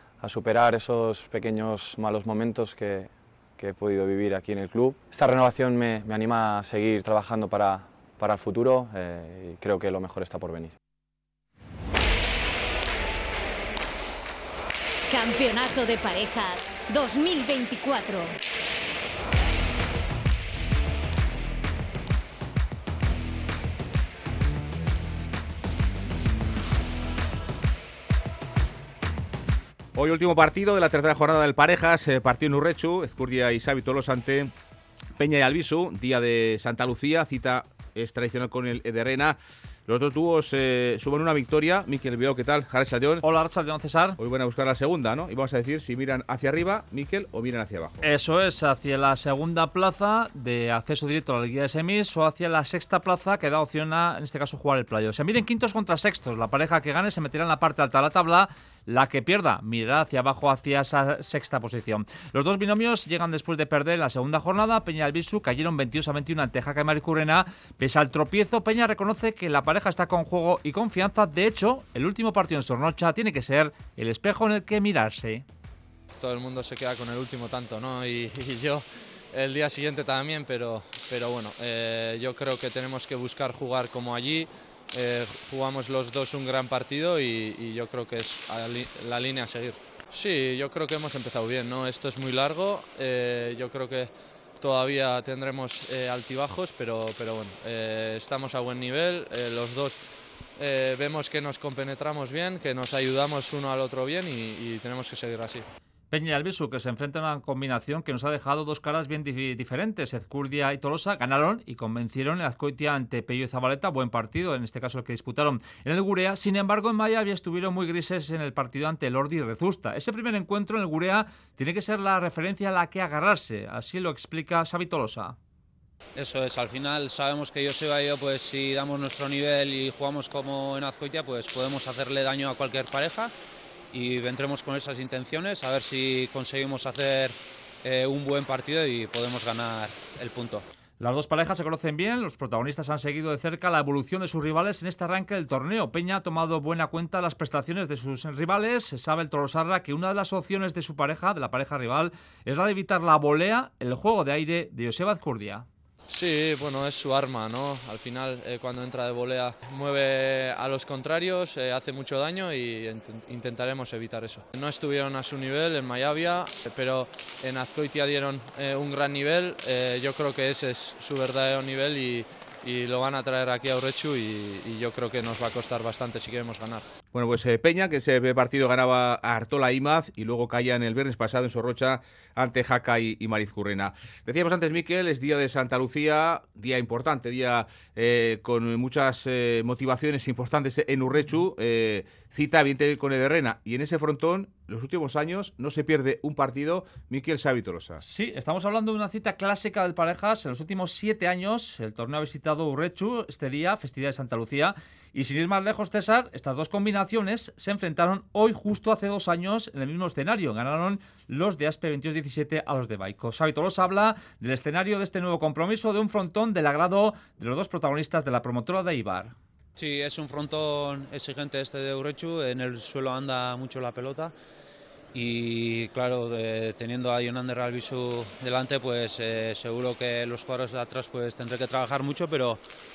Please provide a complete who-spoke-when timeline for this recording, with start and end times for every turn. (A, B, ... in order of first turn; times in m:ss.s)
0:00.2-0:10.7 A
0:15.1-0:18.3 B
0:29.9-0:34.5 C
0:35.2-0:43.2 C
0:43.2-0:44.2 D
0:44.2-0:48.0 C
0:48.0-1:15.4 D
1:16.2-1:40.0 E
1:40.6-1:45.6 E
1:46.1-2:05.4 D
2:06.2-2:13.3 F
2:13.9-2:20.6 F
2:21.0-2:35.6 D
2:36.1-2:56.9 E
2:57.1-3:18.0 C
3:18.0-3:39.3 D
3:39.8-3:44.3 F
3:45.1-3:52.6 F